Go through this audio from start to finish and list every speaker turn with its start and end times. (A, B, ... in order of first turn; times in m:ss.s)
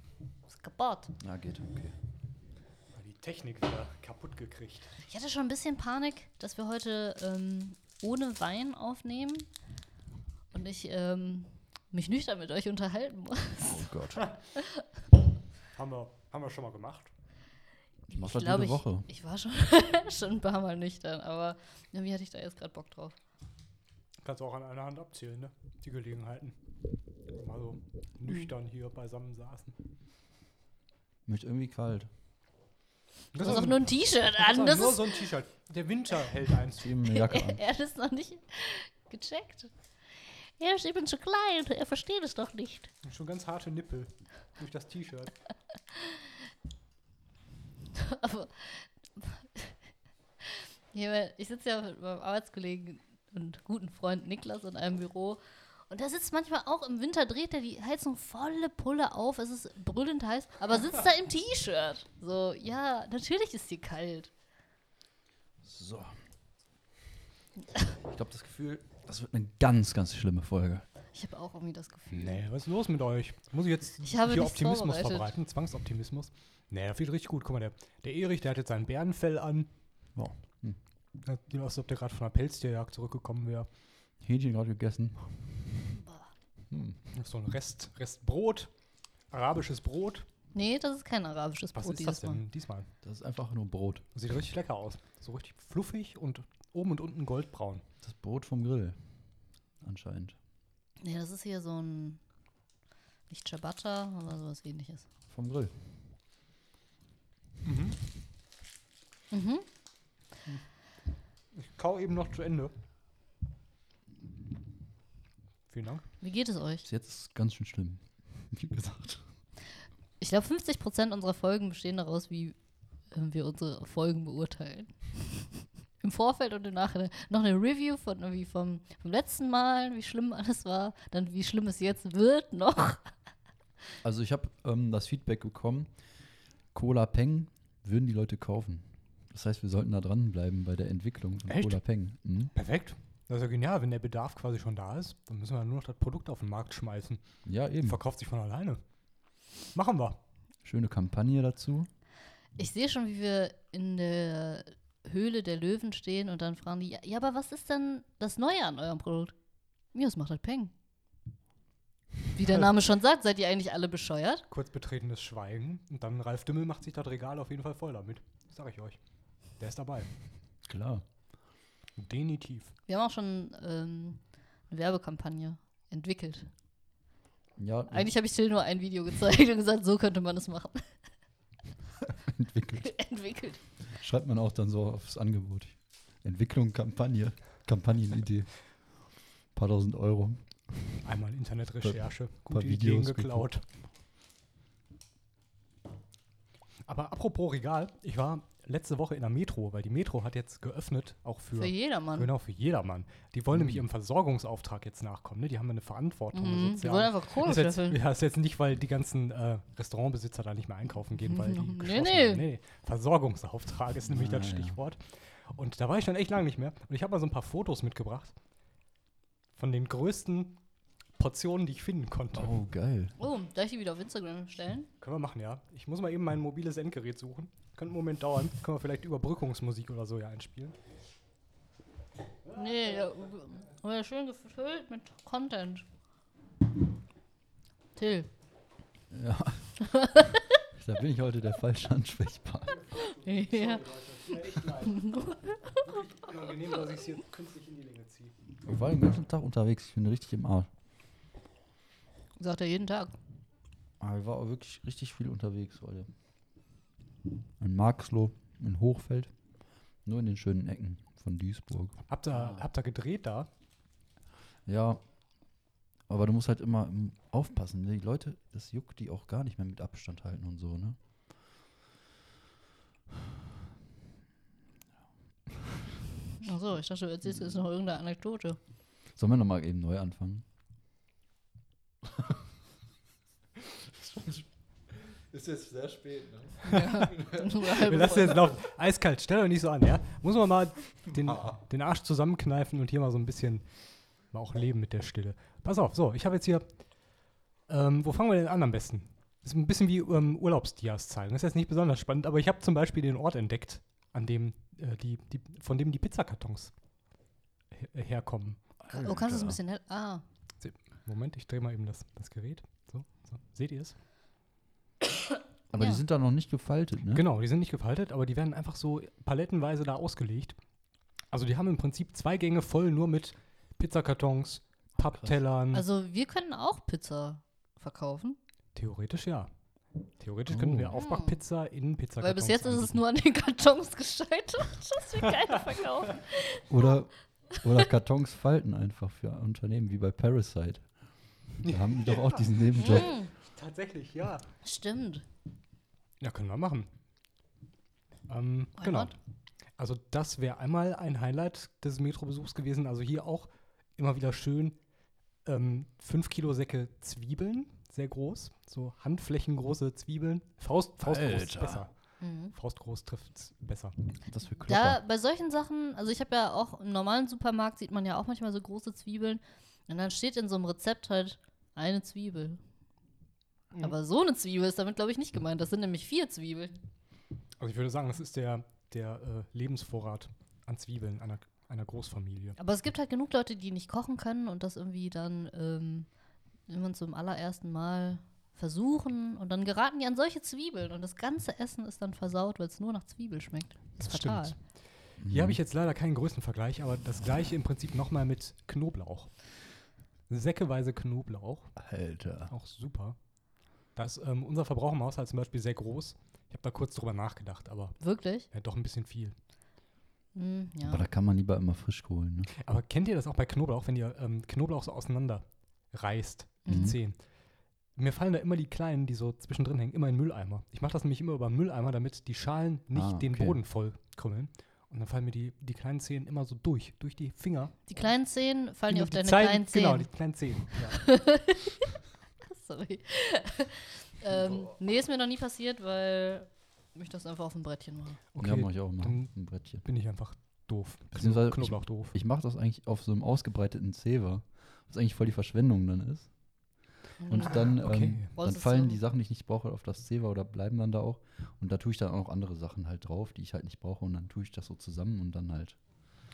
0:00.5-0:01.2 A
0:01.2-0:02.0 B
0:03.0-0:04.9 C
0:05.0-0:09.5 A
0:10.5-0:13.9 A
0:13.7-0:14.3 B
0:14.6-0:14.8 A
0:15.7-0:17.1 C
0:18.1-0:23.2 A
0:18.1-0:19.1 B
0:24.2-0:26.6 C
0:27.3-0:29.8 C
0:31.3-0:32.1 B
0:33.3-0:37.0 C
0:33.4-0:35.2 A
0:36.8-0:37.6 B
0:37.0-0:39.7 A
0:40.6-0:42.9 A
0:43.0-0:45.3 C
0:45.9-0:46.2 A
0:47.9-0:49.8 A
0:50.4-1:04.3 A
1:05.6-1:06.2 B
1:08.0-1:10.9 B
1:11.1-1:12.4 A
1:12.1-1:19.7 C
1:14.0-1:15.3 A
1:20.2-1:20.8 B
1:21.2-1:23.7 C
1:24.2-1:25.6 B
1:25.9-1:26.3 A
1:26.7-1:27.0 B
1:27.1-1:28.7 C
1:29.3-1:30.3 C
1:30.5-1:32.4 A
1:31.8-1:32.9 C
1:33.0-1:34.0 B
1:34.2-1:37.8 C
1:38.0-1:39.0 B
1:39.8-1:40.4 B
1:41.0-1:42.2 A
1:43.3-1:45.1 A
1:45.3-1:45.8 B
1:47.6-1:48.0 C
1:49.3-1:49.7 A
1:51.5-1:52.7 C
1:55.7-1:56.0 C
1:56.2-1:56.9 A
1:56.8-1:59.2 B
2:00.2-2:02.6 A
2:03.1-2:13.1 A
2:14.0-2:15.9 B
2:16.7-2:22.5 B
2:21.5-2:21.8 C
2:22.6-2:27.2 C
2:27.5-2:28.0 B
2:27.8-2:28.8 C
2:29.7-2:30.2 C
2:30.6-2:31.9 B
2:32.6-2:39.3 A
2:39.9-2:40.7 A
2:42.3-2:44.5 A
2:44.5-2:49.0 C
2:49.6-2:50.1 C
2:50.7-2:51.0 B
2:52.0-2:52.7 C
2:52.9-2:56.5 A
2:57.6-2:58.1 B
2:57.9-3:00.9 A
3:02.1-3:02.9 B
3:02.8-3:03.6 A
3:03.9-3:08.5 B
3:09.5-3:10.5 B
3:11.0-3:13.6 C
3:11.8-3:13.5 B
3:16.9-3:38.3 C
3:21.6-3:22.3 A
3:23.5-3:23.8 B
3:26.3-3:28.0 A
3:31.2-3:32.5 A
3:34.1-3:34.8 B
3:39.6-3:40.6 C
3:41.2-3:42.5 C
3:42.4-3:43.2 B
3:43.2-3:44.9 A
3:45.0-3:50.8 C
3:52.5-3:55.8 A
3:58.0-3:58.3 A
3:59.1-3:59.8 B
3:59.8-4:00.5 A
4:00.7-4:02.8 B
4:02.7-4:08.3 C
4:03.0-4:03.8 A
4:04.8-4:05.7 A
4:08.6-4:10.7 B
4:12.4-4:13.2 A
4:14.0-4:16.1 B
4:17.6-4:19.3 B
4:20.0-4:22.6 B
4:22.1-4:23.5 C
4:24.7-4:25.0 B
4:26.1-4:31.0 B
4:35.5-4:35.8 B
4:36.4-4:38.6 A
4:39.2-4:40.4 B
4:42.1-4:42.4 B
4:43.6-4:44.5 B
4:45.3-4:48.5 B
4:46.6-4:47.2 C
4:46.6-4:48.5 A
4:47.7-4:53.6 C
4:51.2-4:51.6 B
4:54.3-4:56.7 C
4:57.7-5:06.7 C
5:07.7-5:08.6 C
5:08.8-5:09.6 B
5:08.9-5:10.2 A
5:10.6-5:14.0 C
5:15.7-5:17.3 B
5:17.1-5:20.6 C
5:21.3-5:25.9 C
5:25.0-5:25.3 B
5:25.7-5:28.4 A
5:28.8-5:29.5 C
5:30.2-5:33.0 C
5:30.5-5:31.0 B
5:30.9-5:31.4 A
5:32.2-5:36.9 A
5:36.7-5:40.8 B
5:41.6-5:43.1 B
5:41.6-5:44.5 C
5:42.8-5:43.3 A
5:44.6-5:45.3 A
5:46.2-5:46.9 C
5:48.3-5:49.2 C
5:48.8-5:49.2 A
5:49.8-5:54.8 C
5:55.4-6:01.9 C
6:01.0-6:01.8 B
6:02.2-6:02.5 A
6:02.5-6:04.0 C
6:04.3-6:05.0 B
6:04.6-6:12.6 A
6:13.7-6:16.8 A
6:17.6-6:22.6 C
6:22.6-6:26.1 A
6:26.7-6:34.5 A
6:34.0-6:34.6 C
6:35.2-6:35.6 B
6:35.2-6:39.3 C
6:40.3-6:41.7 C
6:41.8-6:42.5 B
6:42.5-6:43.2 C
6:44.0-6:48.0 C
6:48.0-6:48.5 A
6:48.5-6:49.4 C
6:50.4-6:51.1 A
6:50.8-6:52.5 B
6:52.5-6:57.2 C
6:56.6-6:56.9 A
6:56.7-6:57.0 B
6:58.0-7:07.9 C
7:02.9-7:03.6 B
7:07.9-7:10.1 A
7:08.9-7:10.8 C
7:10.8-7:11.9 A
7:12.4-7:18.2 A
7:14.3-7:14.8 B
7:18.3-7:19.3 C
7:18.4-7:19.8 B
7:19.8-7:22.2 C
7:21.2-7:26.3 B
7:27.2-7:27.8 A
7:27.3-7:35.8 B
7:27.6-7:28.3 C
7:28.4-7:29.0 A